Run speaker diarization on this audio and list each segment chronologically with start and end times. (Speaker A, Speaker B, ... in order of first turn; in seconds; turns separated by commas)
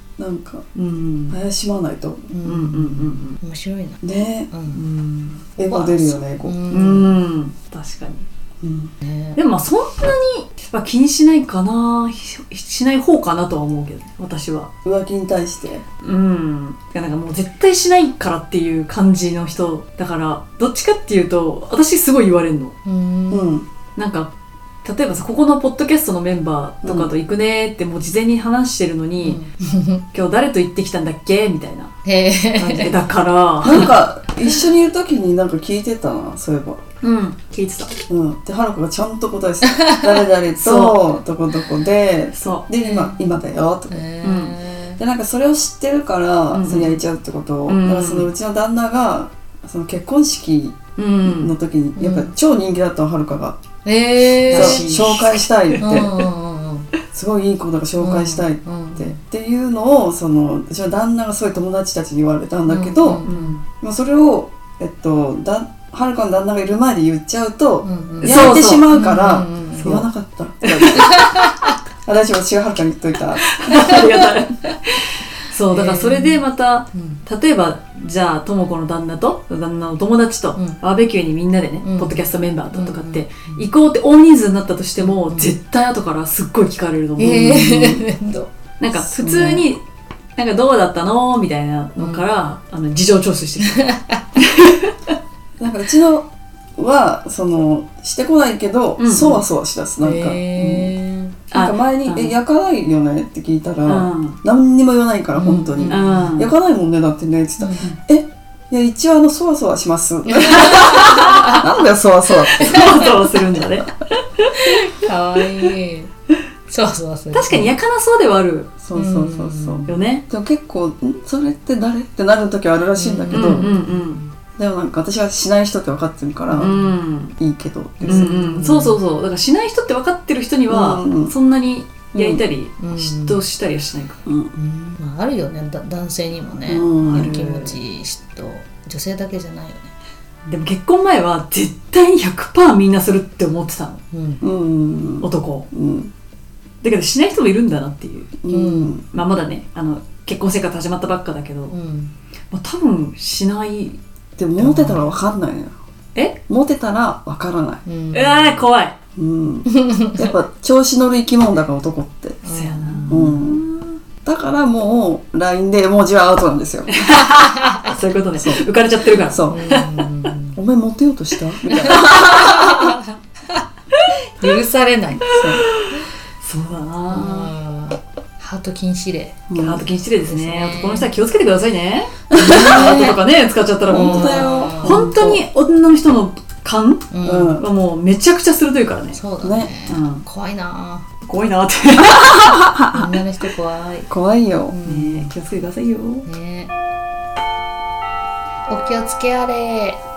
Speaker A: 0.2-0.7, Speaker B: 0.8-1.4, Speaker A: 1.3-2.3, Speaker C: 2.3-4.8, Speaker B: 2.4-3.4, Speaker A: 4.0-4.5, Speaker B: 4.7-5.4, Speaker A: 5.6-6.6, Speaker C: 5.6-7.1, Speaker B: 6.7-8.3, Speaker A: 8.6-8.9, Speaker C: 9.0-9.4, Speaker B: 9.4-14.7, Speaker A: 14.8-15.8, Speaker B: 16.0-22.8, Speaker C: 22.9-23.6, Speaker A: 23.3-23.7, Speaker B: 24.0-24.3, Speaker B: 24.8-29.4, Speaker A: 26.8-27.1, Speaker C: 29.2-30.0, Speaker B: 30.1-31.9, Speaker C: 32.0-33.0, Speaker B: 32.6-34.0, Speaker A: 33.6-36.8, Speaker B: 37.0-38.0, Speaker A: 38.1-44.0, Speaker C: 39.8-40.1, Speaker B: 40.6-41.0, Speaker B: 42.3-42.7, Speaker C: 42.7-45.0, Speaker B: 44.2-44.6, Speaker A: 45.0-53.6, Speaker B: 46.5-47.0, Speaker B: 47.7-48.3, Speaker B: 51.0-51.5, Speaker C: 52.0-52.3, Speaker C: 53.9-55.2, Speaker B: 54.4-55.4, Speaker A: 54.5-56.1, Speaker C: 55.8-56.9, Speaker A: 57.1-63.2, Speaker C: 58.0-59.2, Speaker C: 62.7-63.6, Speaker B: 63.2-63.6, Speaker A: 63.8-71.2, Speaker C: 67.8-70.0, Speaker B: 68.2-68.9, Speaker B: 69.8-70.1, Speaker B: 70.7-71.5, Speaker C: 71.0-71.5, Speaker A: 72.0-73.5, Speaker B: 73.6-88.0, Speaker C: 73.7-74.0, Speaker C: 75.7-76.4, Speaker C: 76.9-77.2, Speaker C: 81.8-83.7, Speaker C: 85.0-85.5, Speaker C: 87.2-89.7, Speaker B: 88.8-89.8, Speaker B: 90.4-94.9, Speaker C: 92.0-92.2, Speaker C: 93.8-94.2, Speaker A: 95.6-101.0, Speaker B: 99.0-99.4, Speaker C: 100.0-101.4, Speaker B: 101.5-102.3, Speaker A: 101.5-113.1, Speaker B: 103.8-104.4, Speaker C: 105.3-106.3, Speaker B: 105.9-106.5, Speaker C: 107.6-108.0, Speaker C: 110.3-111.7, Speaker B: 110.6-111.6, Speaker C: 112.6-113.1, Speaker B: 112.6-114.5, Speaker C: 114.6-116.1, Speaker C: 116.7-117.7, Speaker B: 117.3-118.7, Speaker A: 118.8-123.7, Speaker C: 118.9-120.0, Speaker B: 119.9-120.2, Speaker C: 123.0-124.3, Speaker B: 123.3-124.2, Speaker A: 124.6-126.8, Speaker C: 126.5-126.9, Speaker B: 126.6-127.4, Speaker A: 127.4-128.4, Speaker C: 128.0-129.0, Speaker B: 128.1-134.2, Speaker A: 130.7-131.3, Speaker A: 132.1-132.4, Speaker C: 132.8-133.4, Speaker A: 134.3-134.5, Speaker C: 134.6-139.9, Speaker A: 136.7-137.3, Speaker B: 137.1-137.7, Speaker B: 140.5-144.0, Speaker C: 144.1-144.4, Speaker A: 144.4-146.1, Speaker B: 145.2-145.7, Speaker B: 146.8-148.3, Speaker A: 148.4-149.0, Speaker C: 148.5-149.0, Speaker B: 149.1-151.7, Speaker C: 151.7-152.1, Speaker B: 152.5-154.0, Speaker A: 154.4-155.7, Speaker C: 154.6-155.1, Speaker A: 156.5-157.8, Speaker C: 157.9-158.7, Speaker B: 158.1-158.9, Speaker A: 159.2-162.4, Speaker C: 159.7-160.3, Speaker C: 162.4-163.5, Speaker B: 162.5-164.0, Speaker A: 163.1-163.6, Speaker A: 164.2-166.9, Speaker B: 166.9-169.9, Speaker A: 168.4-168.7, Speaker A: 169.3-169.7, Speaker C: 169.5-170.6, Speaker A: 170.6-172.2, Speaker C: 171.7-173.0, Speaker B: 171.9-172.9, Speaker C: 174.4-175.5, Speaker A: 175.4-175.6, Speaker B: 175.8-177.5, Speaker C: 177.1-179.5, Speaker A: 179.5-179.9, Speaker B: 179.6-187.1, Speaker C: 180.2-181.1, Speaker A: 182.3-183.0, Speaker C: 182.4-183.2, Speaker A: 183.9-185.4, Speaker C: 183.9-185.3, Speaker C: 187.1-187.6, Speaker A: 187.2-187.7, Speaker B: 187.6-189.2, Speaker C: 189.1-191.1, Speaker A: 189.4-189.7, Speaker B: 189.9-190.2, Speaker B: 191.2-192.7, Speaker C: 192.8-194.1, Speaker A: 194.1-194.8, Speaker C: 194.7-195.3, Speaker B: 194.9-196.2, Speaker C: 196.3-196.7, Speaker C: 198.7-200.0